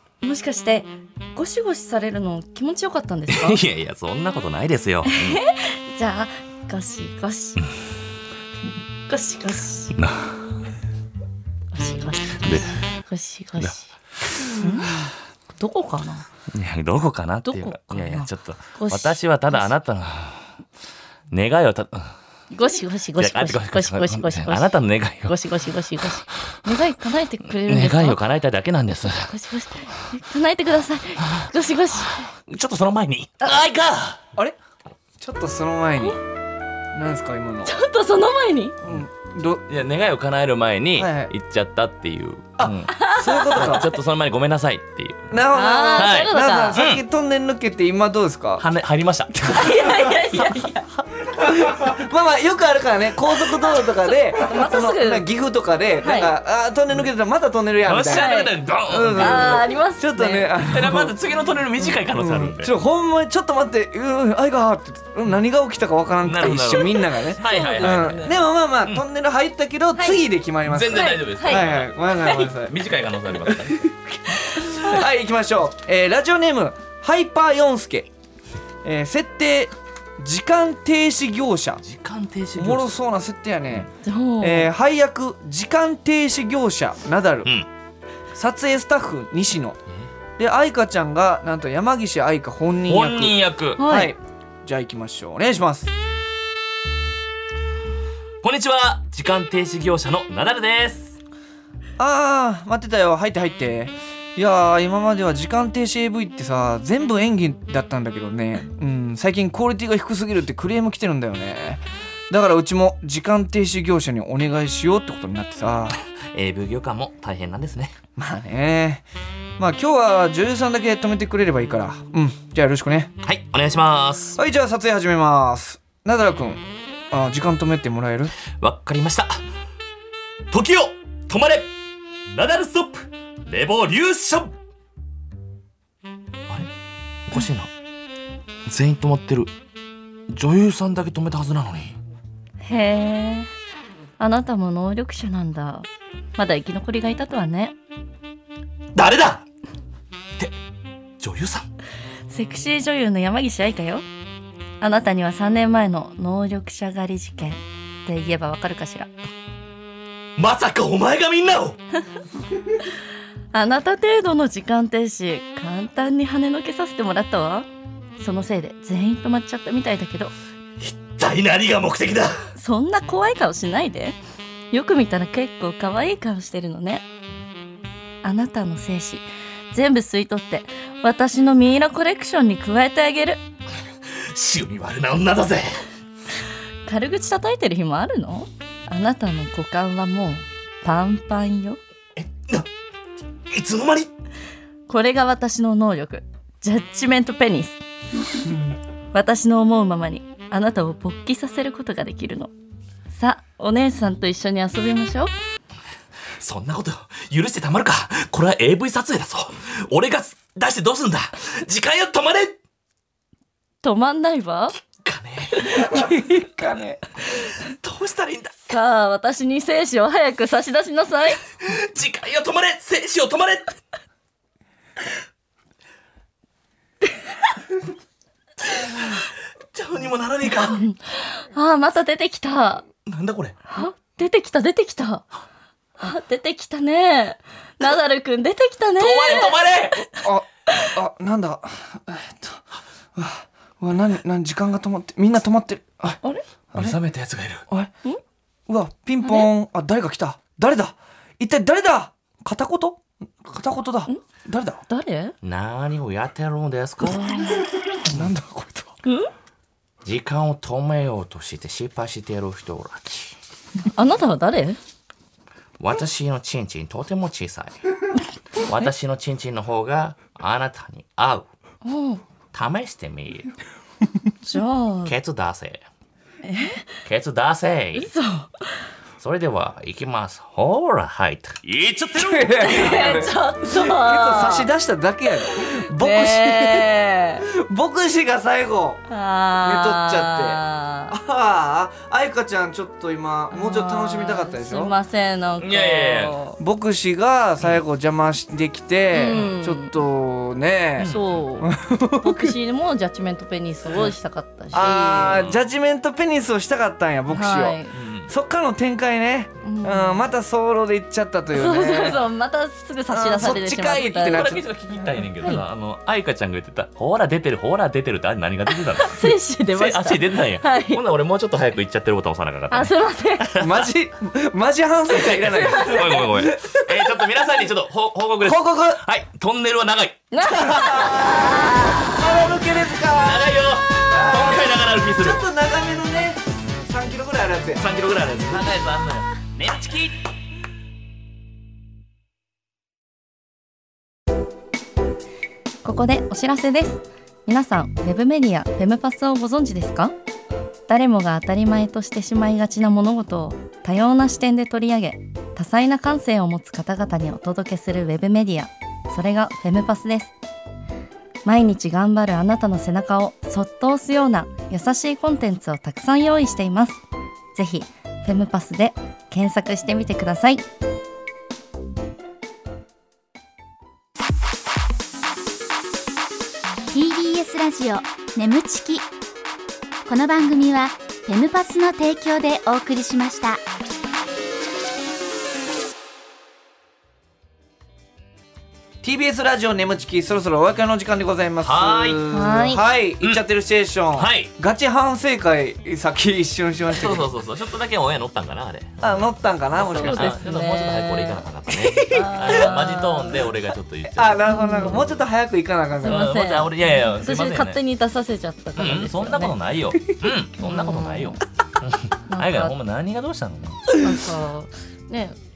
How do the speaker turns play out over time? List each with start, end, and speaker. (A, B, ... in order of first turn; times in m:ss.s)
0:00.2-0:03.6 A
0:03.3-0:05.4 B
0:05.0-0:07.6 A
0:09.1-0:09.9 A
0:09.9-0:10.4 B
0:11.7-0:13.9 A
0:12.4-0:12.7 B
0:14.2-0:14.7 B
0:14.5-0:15.0 A
0:15.6-0:16.2 A
0:16.5-0:20.5 B
0:17.4-0:19.7 A
0:21.3-0:22.1 B
0:22.5-0:28.2 A
0:23.2-0:25.4 B
0:27.5-0:29.3 B
0:29.2-0:32.2 A
0:32.1-0:34.2 B
0:35.2-0:36.2 C
0:36.9-0:37.8 C
0:37.6-0:38.8 A
0:38.8-0:39.6 C
0:39.7-0:45.4 B
0:41.0-0:41.3 C
0:42.6-0:43.9 C
0:42.9-0:43.8 A
0:45.3-0:48.6 C
0:45.5-0:46.8 A
0:45.9-0:47.0 B
0:48.6-0:49.5 B
0:49.3-0:58.3 C
0:49.4-0:50.8 A
0:54.3-0:55.2 A
0:56.0-0:56.3 A
0:57.8-0:59.6 B
0:58.1-0:58.5 A
0:58.9-1:01.1 C
0:59.2-1:00.5 A
1:00.6-1:02.7 B
1:02.1-1:12.8 C
1:06.2-1:09.0 B
1:07.4-1:08.4 A
1:10.0-1:10.2 A
1:10.6-1:13.9 B
1:10.9-1:11.7 A
1:13.4-1:18.1 C
1:14.4-1:14.9 A
1:18.8-1:21.8 C
1:21.8-1:22.9 B
1:22.6-1:23.9 C
1:24.0-1:24.7 A
1:24.4-1:27.5 C
1:28.3-1:29.8 C
1:30.4-1:35.9 C
1:32.9-1:33.8 B
1:33.8-1:34.1 A
1:38.4-1:41.2 B
1:42.0-1:56.0 C
1:56.1-1:58.0 B
1:58.2-1:59.0 C
1:59.6-2:03.1 C
2:03.2-2:04.4 B
2:04.4-2:08.3 C
2:08.5-2:09.4 B
2:10.5-2:11.7 B
2:12.3-2:14.5 B
2:17.3-2:17.7 B
2:18.6-2:19.5 B
2:20.3-2:22.0 B
2:22.6-2:23.5 A
2:24.2-2:27.8 A
2:28.9-2:29.4 B
2:31.2-2:31.7 B
2:32.3-2:34.0 A
2:34.8-2:39.1 A
2:40.4-2:41.8 B
2:43.5-2:47.7 A
2:48.2-2:50.3 A
2:50.8-2:52.4 B
2:52.6-2:54.2 A
2:54.7-2:57.0 A
2:58.2-3:03.4 A
3:04.3-3:05.7 B
3:06.8-3:11.8 A
3:12.2-3:12.7 B
3:13.5-3:14.1 B
3:14.9-3:17.8 A
3:19.1-3:22.5 A
3:23.1-3:25.3 A
3:26.4-3:32.6 B
3:33.8-3:34.7 A
3:34.9-3:36.1 B
3:35.7-3:37.0 C
3:37.4-3:38.6 B
3:38.6-3:41.4 A
3:41.6-3:43.8 B
3:48.6-3:50.8 B
3:50.8-3:52.8 A
3:53.0-3:53.6 B
3:53.7-3:55.2 A
3:56.0-3:59.6 A
3:59.0-4:00.0 B
4:00.0-4:02.6 C
4:03.1-4:06.2 C
4:06.7-4:07.6 B
4:08.7-4:14.8 C
4:09.2-4:09.5 A
4:14.9-4:15.3 A
4:15.4-4:17.6 B
4:17.0-4:17.6 A
4:18.0-4:18.9 C
4:20.0-4:23.4 B
4:23.9-4:24.8 A
4:25.8-4:27.8 B
4:28.6-4:31.5 B
4:31.8-4:32.2 A
4:32.5-4:33.5 B
4:34.4-4:35.1 A
4:35.0-4:35.8 B
4:36.4-4:36.9 A
4:37.0-4:38.1 B
4:37.9-4:38.7 A
4:39.2-4:43.0 B
4:42.1-4:46.9 C
4:42.6-4:44.7 A
4:45.4-4:47.4 A
4:47.4-4:49.0 C
4:49.1-4:51.1 A
4:49.6-4:54.9 C
4:53.5-4:56.6 A
4:55.6-4:56.4 B
4:56.6-5:02.6 C
4:59.1-5:00.0 A
5:01.0-5:01.3 B
5:01.0-5:05.4 A
5:04.7-5:12.2 C
5:05.2-5:05.6 B
5:07.3-5:07.9 A
5:07.9-5:08.3 B
5:09.6-5:10.2 A
5:11.5-5:14.5 A
5:13.1-5:14.7 C
5:14.3-5:23.9 B
5:18.7-5:21.0 A
5:22.7-5:23.5 A
5:23.6-5:27.2 C
5:25.3-5:32.4 B
5:25.6-5:26.0 A
5:28.4-5:29.0 C
5:30.3-5:32.0 A
5:30.5-5:37.9 C
5:33.1-5:35.4 B
5:37.8-5:40.2 B
5:45.8-5:50.1 A
5:50.9-6:00.3 A
6:01.4-6:07.0 A
6:07.5-6:10.6 A
6:16.9-6:19.1 D
6:20.0-6:23.6 D
6:29.0-6:37.3 C
6:31.6-6:32.2 B
6:32.3-6:32.8 A
6:34.2-6:34.5 B
6:36.9-6:39.3 B
6:39.0-6:40.4 C
6:39.8-6:41.4 A
6:39.8-6:45.2 B
6:41.8-6:42.7 C
6:42.0-6:43.4 A
6:44.1-6:46.3 C
6:44.5-6:45.0 A
6:46.0-6:49.5 A
6:46.0-6:47.8 B
6:48.8-6:54.0 B
6:50.6-6:51.4 A
6:52.3-6:52.8 A
6:54.0-6:55.4 A